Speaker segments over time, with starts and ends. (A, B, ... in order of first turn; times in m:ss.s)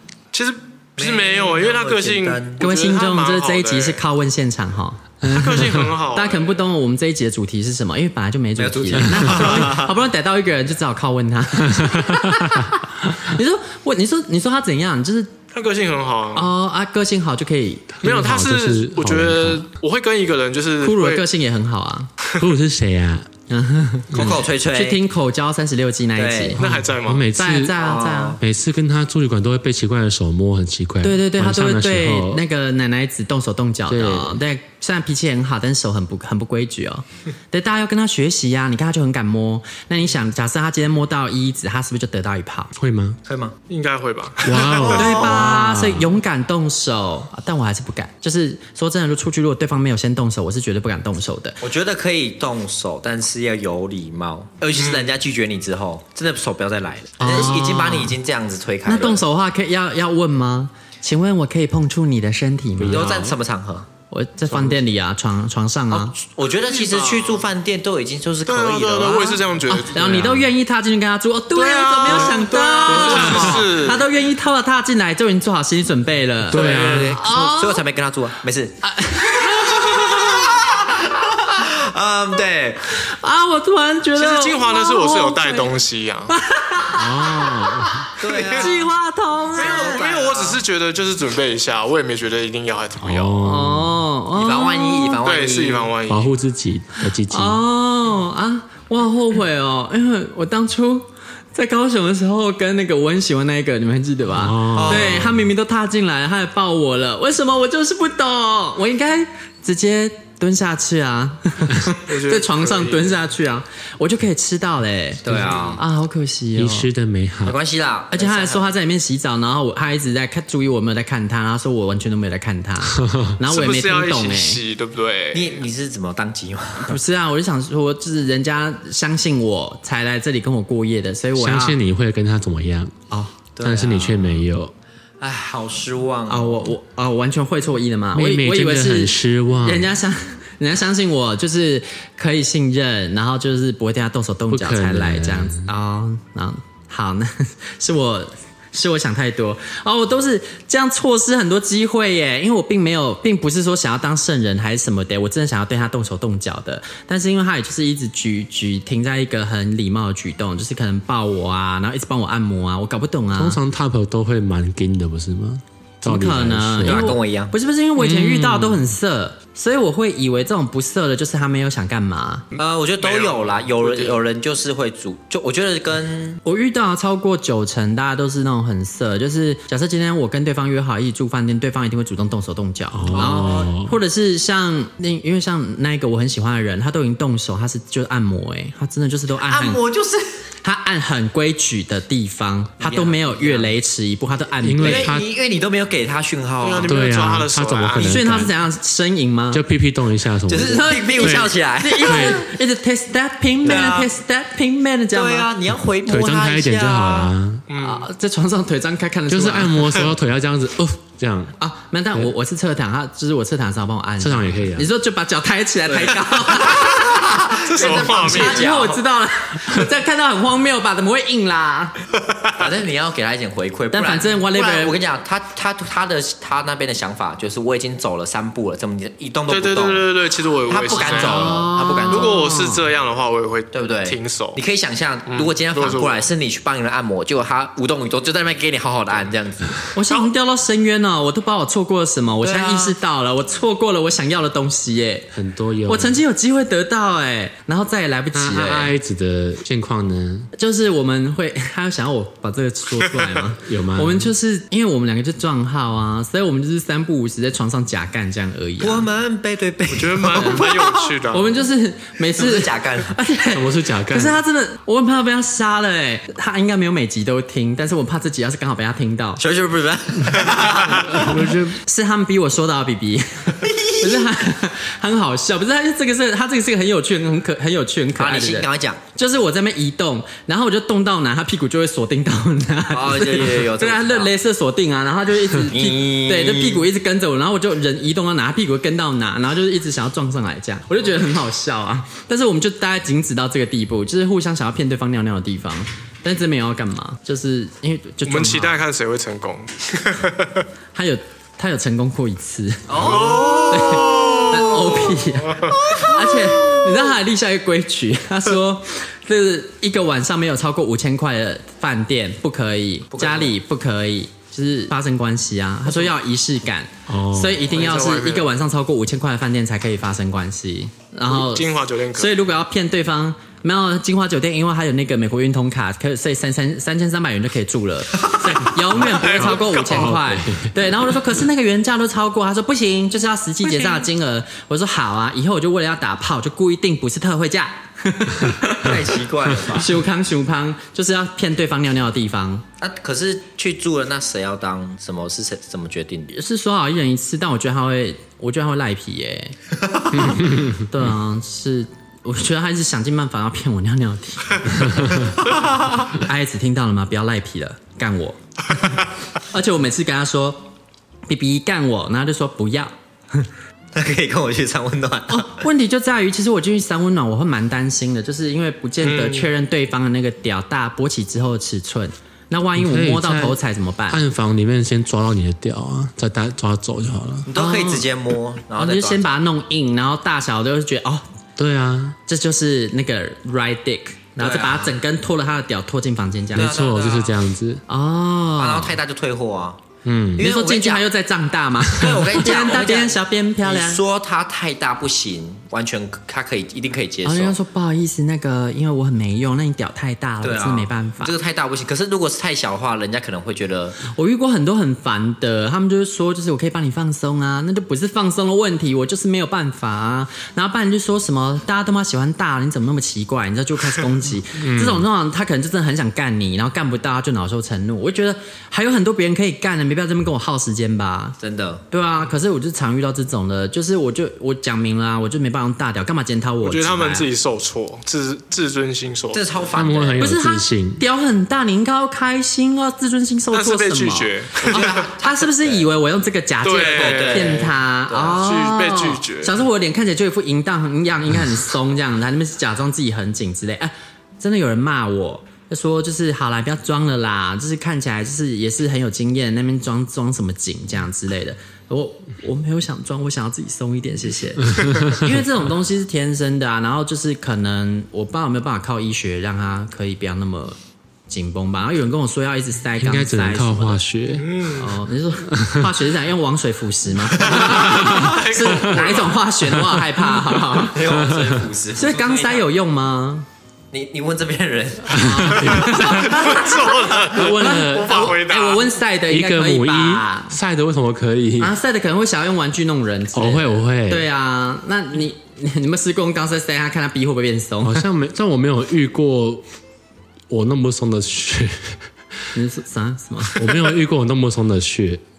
0:00.3-0:04.0 A
0:01.0-0:02.6 B
0:02.6-0:15.3 C
0:05.2-0:06.6 A
0:08.6-0:09.9 B
0:11.8-0:12.7 D
0:15.5-0:16.5 A
0:16.4-0:18.0 C
0:17.9-0:19.7 D
0:18.0-0:21.2 A
0:20.8-0:22.1 C
0:22.2-0:22.5 A
0:22.4-0:23.3 D
0:23.5-0:24.1 C
0:24.1-0:24.4 D
0:24.1-0:25.0 B
0:24.7-0:26.6 C
0:26.2-0:26.6 B
0:26.6-0:27.8 D
0:26.6-0:27.3 A
0:27.4-0:28.4 C
0:27.8-0:28.4 B
0:28.4-0:32.4 D
0:31.0-0:42.7 C
0:33.9-0:34.4 D
0:42.8-0:43.2 D
0:43.2-0:43.6 B
0:43.7-0:45.4 A
0:44.4-0:46.1 D
0:44.8-0:45.5 B
0:44.9-0:51.6 C
0:51.6-0:59.2 B
0:54.8-0:55.1 A
0:57.2-0:58.2 C
0:58.9-1:03.1 C
1:02.8-1:03.4 D
1:02.9-1:03.9 B
1:04.1-1:06.2 C
1:05.9-1:09.4 B
1:06.6-1:07.5 A
1:08.5-1:10.3 A
1:09.7-1:17.8 C
1:10.0-1:10.4 D
1:11.5-1:14.0 A
1:12.9-1:13.7 B
1:16.5-1:17.2 D
1:16.5-1:22.9 B
1:18.8-1:20.6 C
1:23.0-1:25.7 C
1:24.2-1:26.4 A
1:26.3-1:30.0 C
1:26.9-1:28.1 D
1:28.2-1:28.8 B
1:28.2-1:28.8 A
1:29.5-1:30.6 B
1:29.6-1:33.4 A
1:33.0-1:34.0 D
1:33.4-1:35.2 C
1:34.4-1:35.9 B
1:35.2-1:36.4 A
1:36.1-1:37.6 D
1:37.3-1:56.9 C
1:44.3-1:45.5 D
1:44.7-1:45.3 B
1:52.1-1:53.1 A
1:55.2-1:55.8 B
1:55.3-1:55.7 D
1:56.6-1:57.6 D
1:57.4-1:58.7 B
1:58.1-2:04.6 C
2:02.9-2:03.3 D
2:03.4-2:05.7 A
2:05.3-2:07.0 B
2:06.8-2:11.8 C
2:11.4-2:12.9 D
2:13.1-2:13.4 C
2:13.6-2:14.5 B
2:13.6-2:14.7 D
2:15.2-2:16.7 B
2:16.3-2:43.6 C
2:18.1-2:19.9 D
2:24.5-2:25.7 D
2:43.4-2:47.1 D
2:46.0-2:52.5 C
2:46.8-2:47.5 B
2:48.0-2:48.9 D
2:52.6-2:56.4 B
2:53.0-2:54.2 A
2:56.4-3:09.8 C
3:02.9-3:04.0 D
3:03.1-3:03.6 B
3:09.5-3:10.3 B
3:10.6-3:15.1 C
3:12.8-3:13.7 B
3:14.6-3:15.3 D
3:14.8-3:16.9 B
3:16.6-3:18.3 A
3:16.8-3:18.5 D
3:18.0-3:19.6 C
3:19.5-3:22.4 D
3:20.5-3:22.4 B
3:20.6-3:25.5 C
3:23.6-3:24.1 B
3:25.1-3:27.3 B
3:26.1-3:27.6 D
3:27.7-3:28.1 A
3:27.8-3:30.0 C
3:29.3-3:31.5 D
3:31.6-3:37.2 C
3:34.2-3:34.9 D
3:35.9-3:39.0 B
3:37.5-3:38.7 A
3:38.1-3:42.0 C
3:42.6-3:52.4 B
3:43.9-3:45.0 C
3:49.5-3:54.6 A
3:51.0-3:52.8 C
3:53.7-3:59.8 B
3:55.3-3:56.3 A
3:59.9-4:05.3 C
4:02.4-4:03.0 B
4:05.3-4:06.2 D
4:05.9-4:08.9 C
4:08.3-4:10.5 D
4:10.6-4:19.1 C
4:13.6-4:14.3 D
4:18.8-4:21.2 B
4:19.9-4:21.6 A
4:20.3-4:20.6 C
4:21.3-4:29.4 C
4:22.4-4:23.2 B
4:23.5-4:24.4 D
4:29.4-4:31.3 B
4:30.5-4:31.2 A
4:31.1-4:31.8 D
4:31.5-4:58.8 C
4:33.6-4:34.3 B
4:38.2-4:39.0 B
4:42.9-4:44.3 B
4:45.7-4:46.8 B
4:58.2-5:00.7 A
5:00.9-5:39.0 C
5:02.9-5:05.0 B
5:03.0-5:04.7 A
5:05.4-5:05.8 A
5:05.8-5:06.8 B
5:13.1-5:13.5 B
5:17.1-5:17.6 D
5:17.7-5:18.5 A
5:21.3-5:22.4 A
5:28.9-5:30.2 A
5:29.4-5:30.7 D
5:33.7-5:34.0 B
5:38.8-5:39.9 B
5:39.7-5:42.6 C
5:42.8-5:46.4 B
5:46.3-5:49.6 C
5:50.2-5:50.8 D
5:50.8-5:55.2 C
5:55.4-5:56.1 B
5:56.1-6:00.7 C
6:01.3-6:03.5 C
6:04.0-6:05.6 B
6:05.3-6:14.2 C
6:09.0-6:09.5 A
6:12.8-6:17.5 D
6:17.5-6:19.3 B
6:17.5-6:18.1 C
6:18.8-6:21.2 C
6:21.6-6:22.2 D
6:22.3-6:26.7 C
6:24.4-6:24.9 B
6:26.5-6:27.8 D
6:26.6-6:27.4 B
6:27.9-6:29.0 C
6:28.6-6:29.8 B
6:30.0-6:30.4 D
6:30.4-6:31.1 B
6:30.4-6:34.0 C
6:31.9-6:37.6 B
6:37.2-6:41.3 C
6:40.4-6:44.0 B
6:44.0-7:01.4 C
6:54.6-6:55.0 D
7:01.4-7:01.8 B
7:01.9-7:07.3 C
7:06.6-7:09.6 A
7:09.3-7:10.4 B
7:09.8-7:11.0 D
7:10.2-7:40.8 C
7:13.5-7:15.0 A
7:14.6-7:15.9 B
7:16.6-7:17.7 A
7:16.8-7:18.4 B
7:18.3-7:19.6 A
7:41.3-7:44.0 C
7:43.0-7:44.5 D
7:44.4-7:45.0 A
7:44.7-7:51.0 C
7:45.5-7:45.9 D
7:47.4-7:49.4 A
7:47.8-7:48.4 D
7:49.8-7:50.1 D
7:50.8-7:52.7 B
7:51.1-7:51.6 D
7:52.0-7:53.5 C
7:53.9-7:55.8 B
7:55.1-7:56.2 D
7:55.1-8:00.6 C
7:55.9-7:58.9 A
7:57.5-7:58.3 D
7:59.3-8:01.8 D
8:01.6-8:08.1 C
8:03.3-8:04.2 D
8:07.8-8:09.6 D
8:10.5-8:12.0 D
8:12.5-8:13.6 C
8:13.5-8:15.2 D